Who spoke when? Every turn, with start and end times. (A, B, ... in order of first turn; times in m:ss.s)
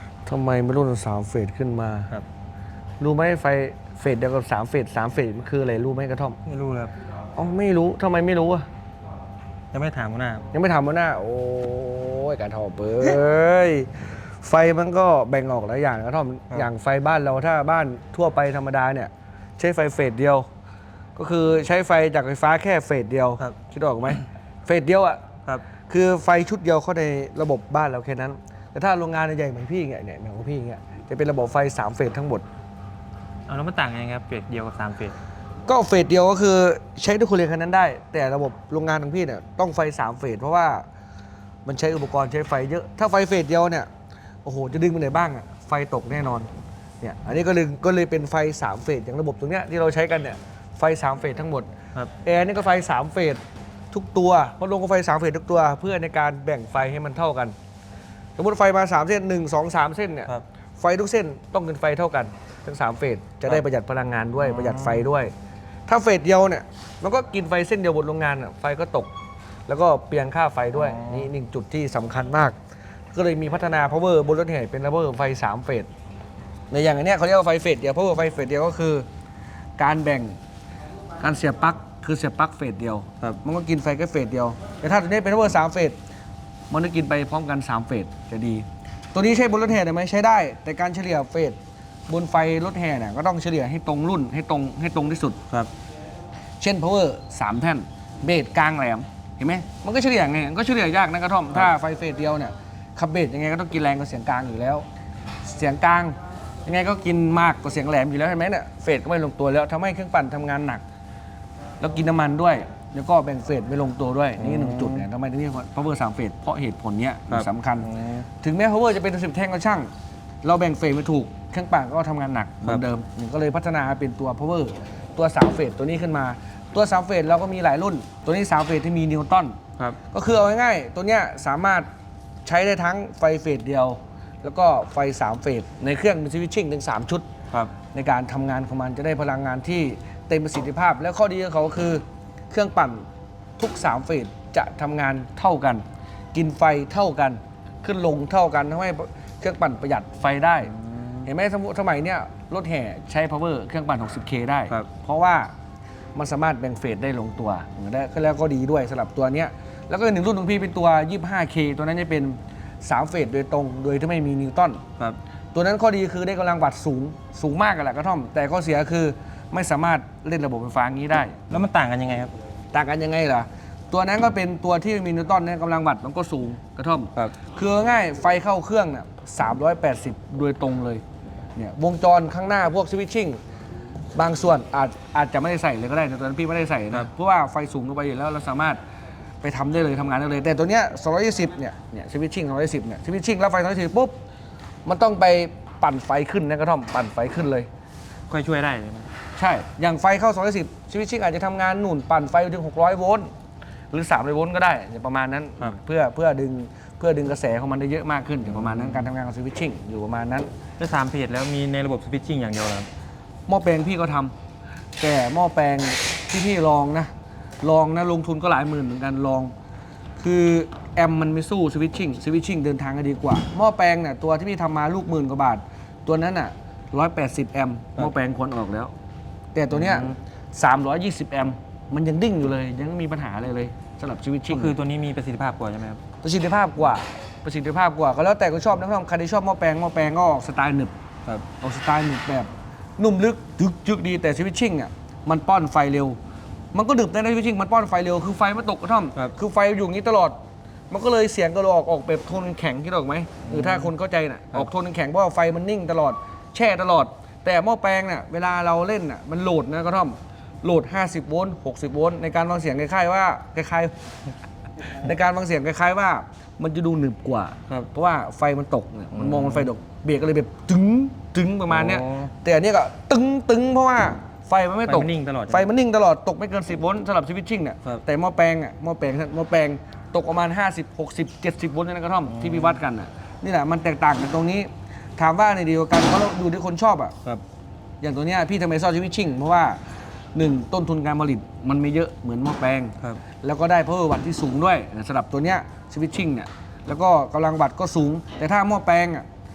0:00.3-0:02.1 A
0:03.0-0:06.4 A
0:06.5-0:06.9 B
0:07.4-0:08.7 A
0:09.7-0:10.5 B
0:10.5-0:20.5 A
0:21.2-0:25.2 A
0:25.9-0:32.4 A
0:33.5-0:35.2 B
0:35.7-0:40.8 A
0:41.6-0:43.9 A
0:44.4-0:46.5 A
0:47.0-0:51.7 A
0:52.2-0:57.5 A
0:58.4-1:05.3 A
1:04.4-1:05.0 B
1:05.9-1:09.1 A
1:09.7-1:12.6 A
1:10.8-1:11.3 B
1:13.1-1:15.9 A
1:16.7-1:19.1 A
1:19.8-1:20.4 A
1:21.2-1:26.0 A
1:26.7-1:31.6 A
1:32.1-1:35.4 A
1:36.6-1:44.8 A
1:45.4-1:50.8 A
1:51.8-1:57.9 A
1:54.4-1:55.0 B
1:57.3-1:58.2 B
1:58.4-1:59.9 A
2:00.4-2:09.6 A
2:10.1-2:11.9 A
2:12.4-2:17.3 A
2:17.9-2:23.0 A
2:23.6-2:30.7 A
2:30.8-2:31.3 B
2:31.2-2:35.5 A
2:36.2-2:44.8 A
2:45.5-2:51.4 A
2:51.5-2:52.3 B
2:52.7-3:01.0 A
3:01.6-3:03.4 A
3:04.1-3:08.8 A
3:09.4-3:14.2 A
3:14.8-3:17.7 A
3:18.3-3:19.1 B
3:19.4-3:23.3 A
3:23.9-3:30.5 A
3:28.5-3:29.1 B
3:30.8-3:32.9 B
3:33.5-3:34.3 A
3:35.0-3:39.5 A
3:40.2-3:48.9 A
3:49.5-3:54.8 A
3:49.7-3:50.1 B
3:54.5-3:56.0 B
3:56.2-4:00.9 A
4:01.6-4:06.2 A
4:06.7-4:10.4 A
4:10.9-4:23.9 A
4:13.5-4:13.9 B
4:24.8-4:47.2 A
4:29.2-4:29.7 B
4:31.7-4:32.3 B
4:34.9-4:35.7 B
4:42.3-4:42.8 B
4:48.0-4:49.8 A
4:50.4-4:59.2 A